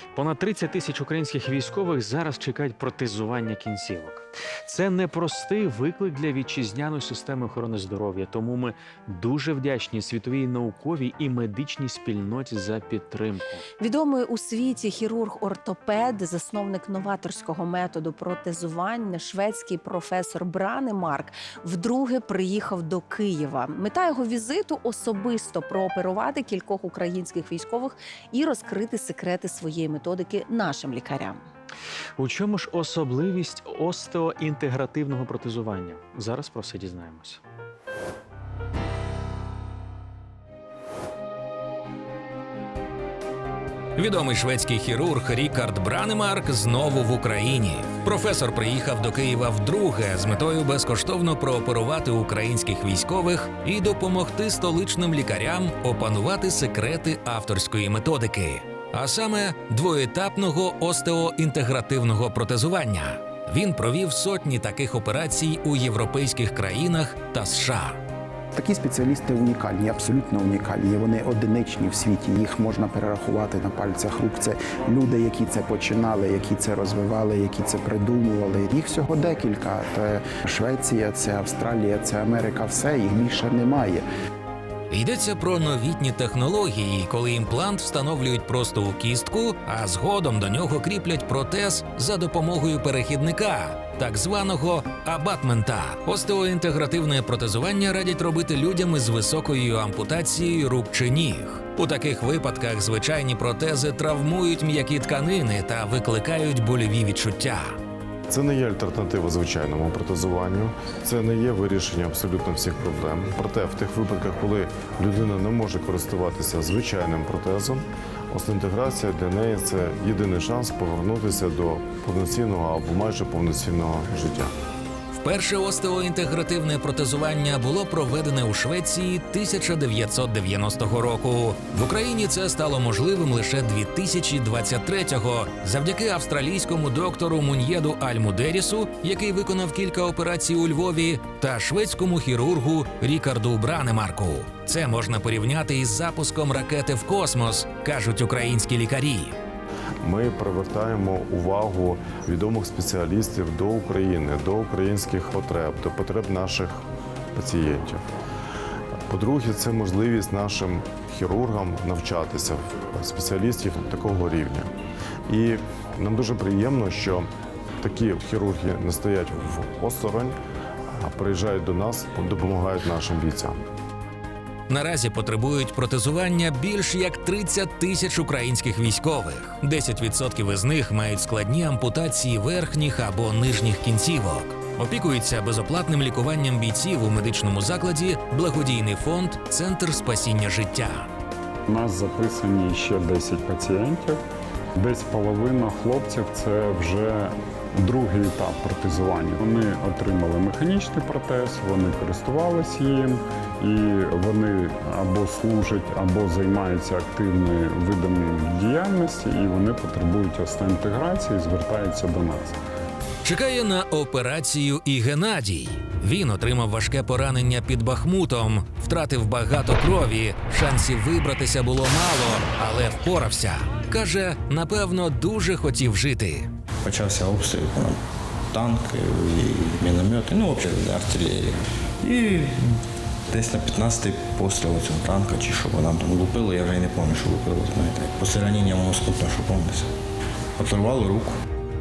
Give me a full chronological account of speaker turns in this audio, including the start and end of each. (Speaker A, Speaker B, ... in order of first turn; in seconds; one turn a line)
Speaker A: 0.2-4.2
Speaker A: 4.7-13.6
Speaker B: 13.8-31.5
Speaker A: 32.4-37.3
Speaker C: 44.0-68.0
Speaker D: 68.5-84.0
Speaker C: 84.9-107.8
Speaker E: 108.3-124.5
Speaker C: 125.1-149.4
Speaker E: 150.0-156.8
Speaker E: 157.3-158.0
Speaker E: 159.1-164.7
Speaker E: 165.3-167.3
Speaker E: 167.8-170.4
Speaker E: 171.0-173.6
Speaker C: 174.7-191.1
Speaker F: 191.7-194.2
Speaker F: 194.8-212.5
Speaker C: 213.2-226.5
Speaker G: 226.8-239.9
Speaker G: 240.6-241.4